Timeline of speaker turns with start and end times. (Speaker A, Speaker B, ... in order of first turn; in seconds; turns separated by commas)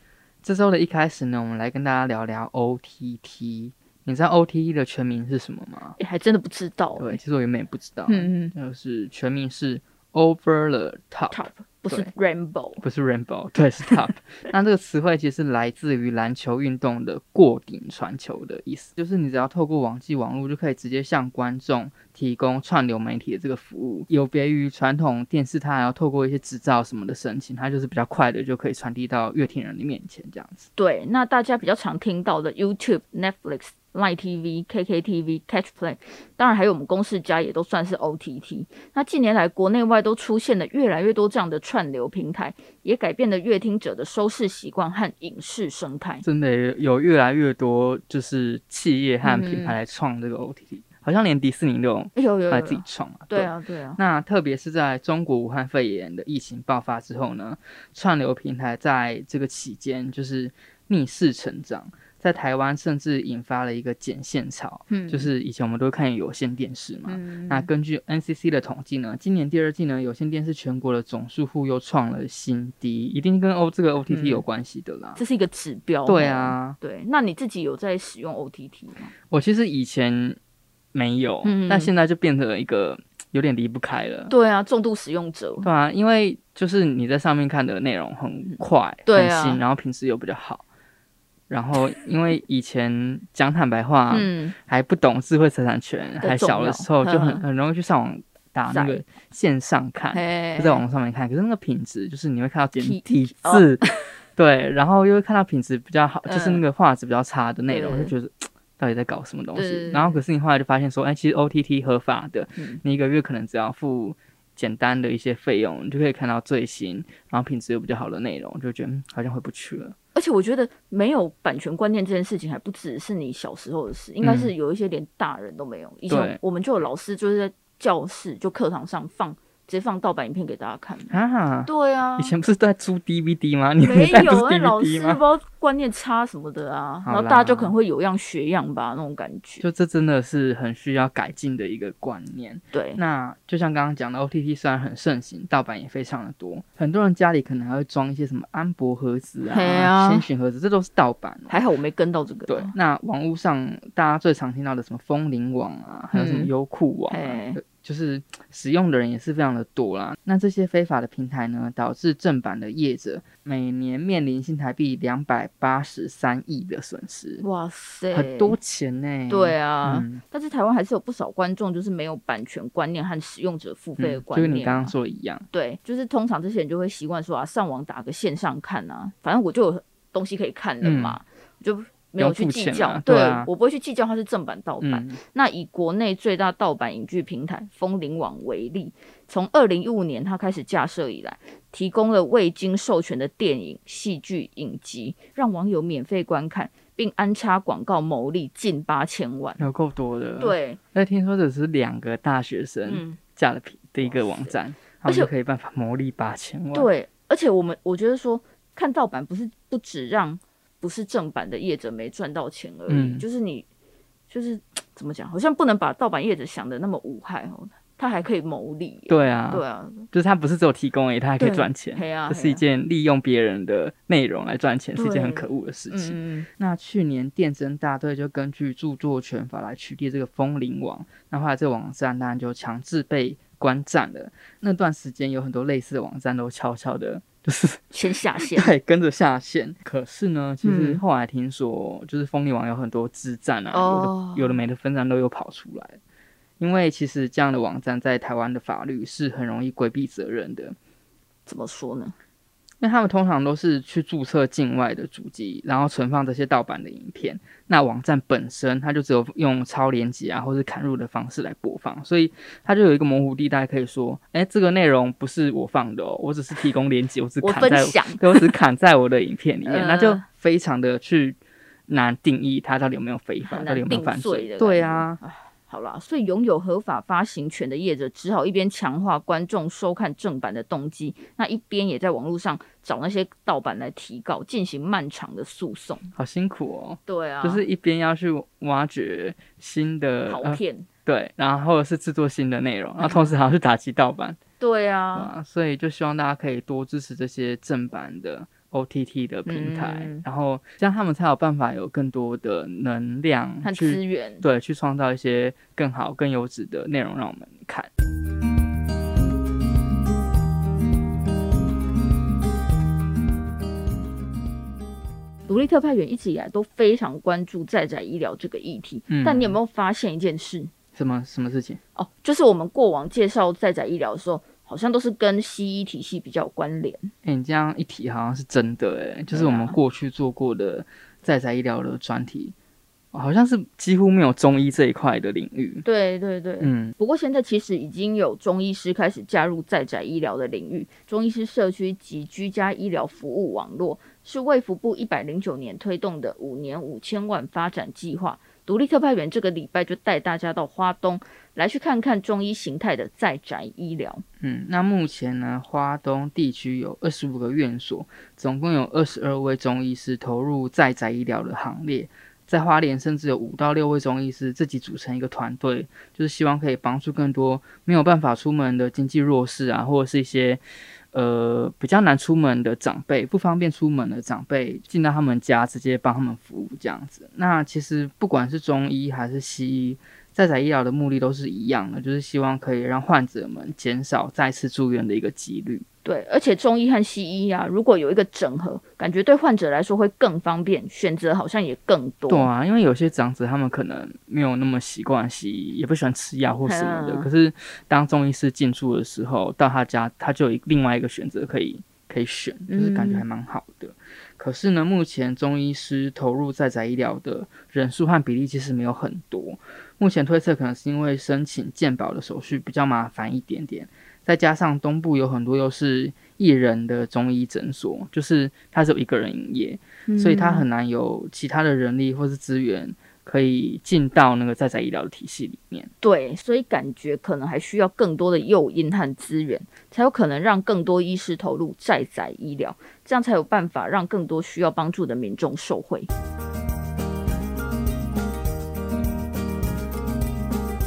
Speaker A: 0.4-6.0, Speaker B: 6.0-7.2, Speaker A: 7.0-12.1, Speaker B: 8.1-8.5, Speaker B: 11.3-12.8, Speaker A: 12.8-30.7, Speaker B: 30.8-46.2, Speaker A: 46.2-75.2, Speaker B: 49.2-49.8, Speaker B: 52.1-54.0, Speaker B: 64.9-65.3, Speaker B: 67.0-67.7, Speaker B: 74.1-74.4, Speaker B: 75.2-79.1, Speaker A: 76.0-76.8, Speaker A: 79.3-80.4, Speaker A: 80.9-84.3, Speaker B: 81.4-81.9, Speaker B: 84.3-85.7, Speaker A: 85.6-90.6, Speaker B: 88.5-89.6, Speaker A: 91.5-103.8, Speaker B: 94.1-94.5, Speaker B: 96.2-97.4, Speaker B: 98.7-99.0, Speaker B: 100.1-100.8, Speaker B: 102.8-103.9, Speaker A: 104.3-119.9, Speaker B: 106.2-106.6, Speaker B: 107.7-108.1, Speaker B: 109.5-110.2, Speaker B: 112.5-112.8, Speaker B: 120.1-132.3, Speaker A: 124.2-124.5, Speaker A: 126.1-126.4, Speaker A: 131.1-135.2, Speaker B: 133.8-139.6, Speaker A: 137.0-137.7, Speaker A: 139.6-151.5, Speaker B: 142.7-143.0, Speaker B: 149.4-150.2, Speaker B: 151.5-152.7, Speaker A: 152.5-167.4, Speaker B: 156.1-156.5, Speaker B: 157.1-157.6, Speaker B: 167.4-168.6, Speaker A: 168.1-170.2, Speaker B: 169.3-174.9, Speaker A: 174.0-175.4, Speaker B: 175.5-199.6, Speaker A: 180.8-181.2, Speaker A: 182.2-183.5, Speaker A: 184.8-185.2, Speaker A: 199.6-206.9, Speaker B: 200.4-200.8, Speaker B: 202.8-203.2, Speaker B: 204.0-205.3, Speaker B: 206.7-213.7, Speaker A: 212.9-213.2, Speaker B: 214.3-220.1, Speaker A: 219.1-246.0, Speaker B: 221.4-222.6, Speaker B: 224.9-226.5, Speaker B: 237.9-238.7, Speaker B: 240.6-241.0, Speaker B: 243.7-244.6, Speaker A: 246.6-250.8, Speaker B: 251.4-252.1, Speaker A: 252.8-275.2, Speaker B: 267.4-268.5, Speaker B: 269.6-270.2, Speaker B: 273.4-286.1, Speaker A: 286.1-294.4, Speaker B: 287.1-287.6, Speaker B: 290.3-290.9, Speaker B: 293.0-293.3, Speaker B: 294.6-295.3, Speaker A: 295.1-307.9, Speaker B: 299.4-300.2, Speaker B: 303.6-304.4, Speaker B: 315.4-320.7, Speaker A: 319.1-319.6, Speaker A: 320.9-321.8, Speaker B: 321.9-327.1, Speaker A: 327.2-332.5, Speaker B: 329.3-329.8, Speaker A: 333.1-335.8, Speaker B: 335.8-354.2, Speaker A: 336.6-336.9, Speaker A: 354.4-370.6, Speaker A: 371.1-385.8, Speaker B: 386.0-392.5, Speaker A: 392.3-425.9, Speaker B: 396.6-397.3, Speaker B: 402.7-403.2, Speaker B: 420.1-420.6, Speaker B: 426.0-436.1